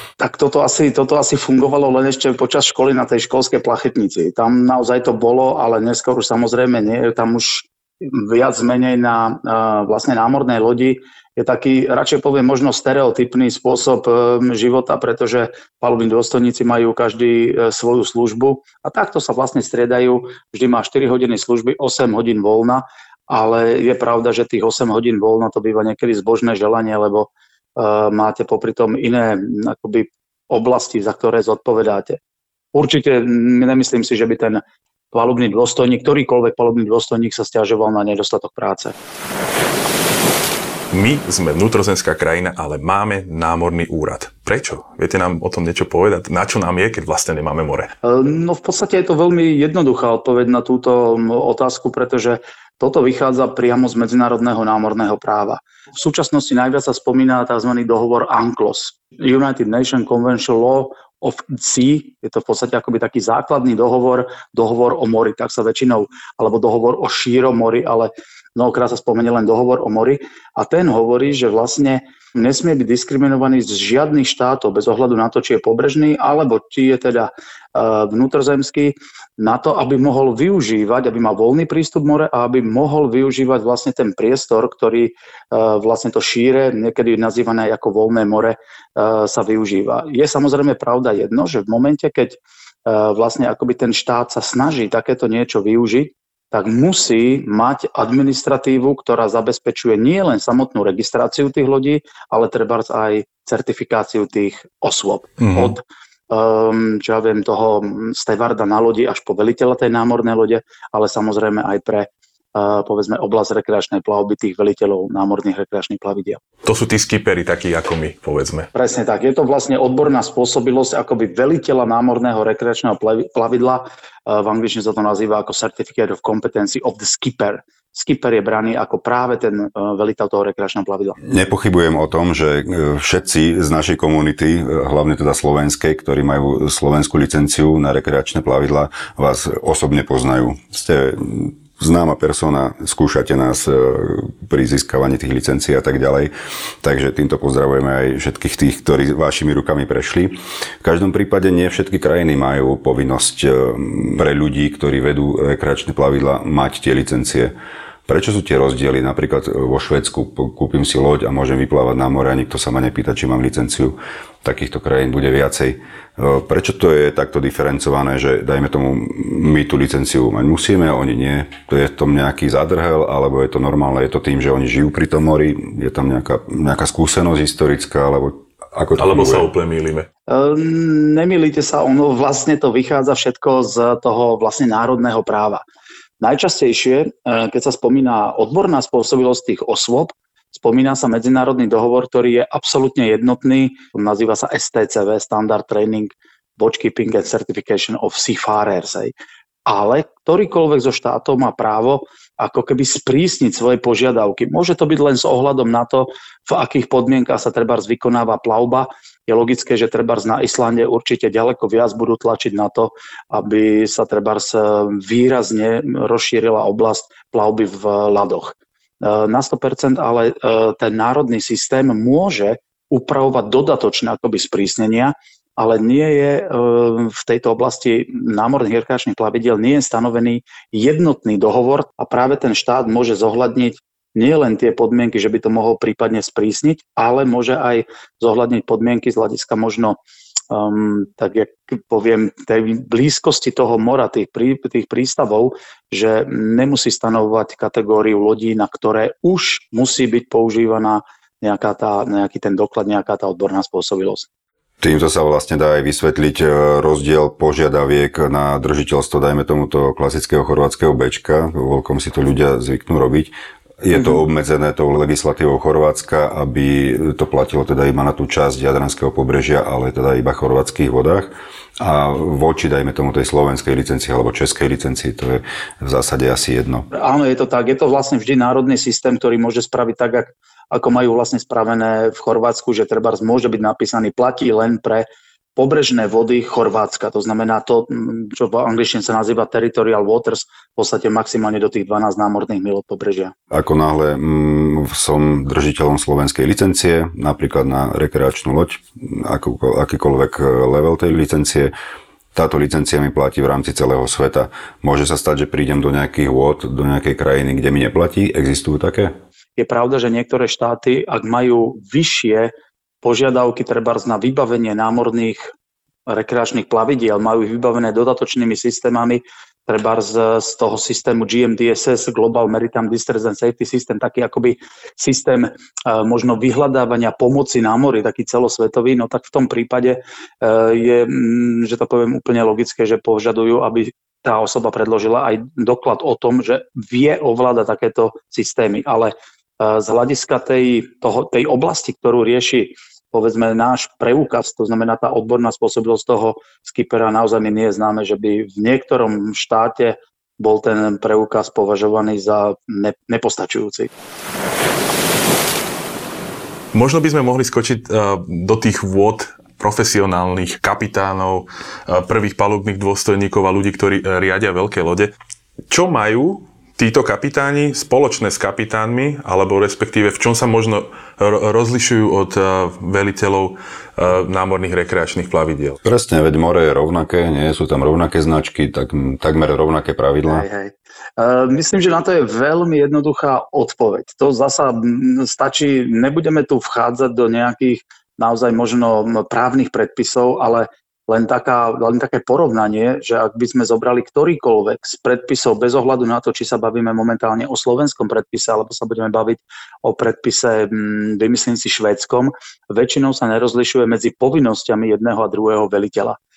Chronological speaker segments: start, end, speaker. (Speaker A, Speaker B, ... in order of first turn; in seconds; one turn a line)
Speaker A: 0.2-32.2
Speaker A: 32.7-38.9
Speaker B: 40.9-47.9
Speaker A: 48.0-116.4
Speaker B: 105.4-105.7
Speaker B: 116.6-118.7
Speaker A: 118.7-131.2
Speaker C: 131.2-146.3
Speaker C: 146.8-157.5
Speaker C: 158.1-179.5
Speaker B: 179.0-180.1
Speaker A: 180.3-185.6
Speaker A: 186.2-199.1
Speaker A: 199.7-240.0
Speaker A: 240.5-254.3
Speaker C: 254.8-276.9
Speaker A: 276.9-293.3
Speaker C: 293.5-301.7
Speaker C: 302.3-309.1
Speaker A: 309.6-315.5
Speaker A: 316.1-353.9
Speaker B: 356.7-365.1
Speaker B: 365.7-375.8
Speaker C: 375.8-380.4
Speaker A: 380.2-406.2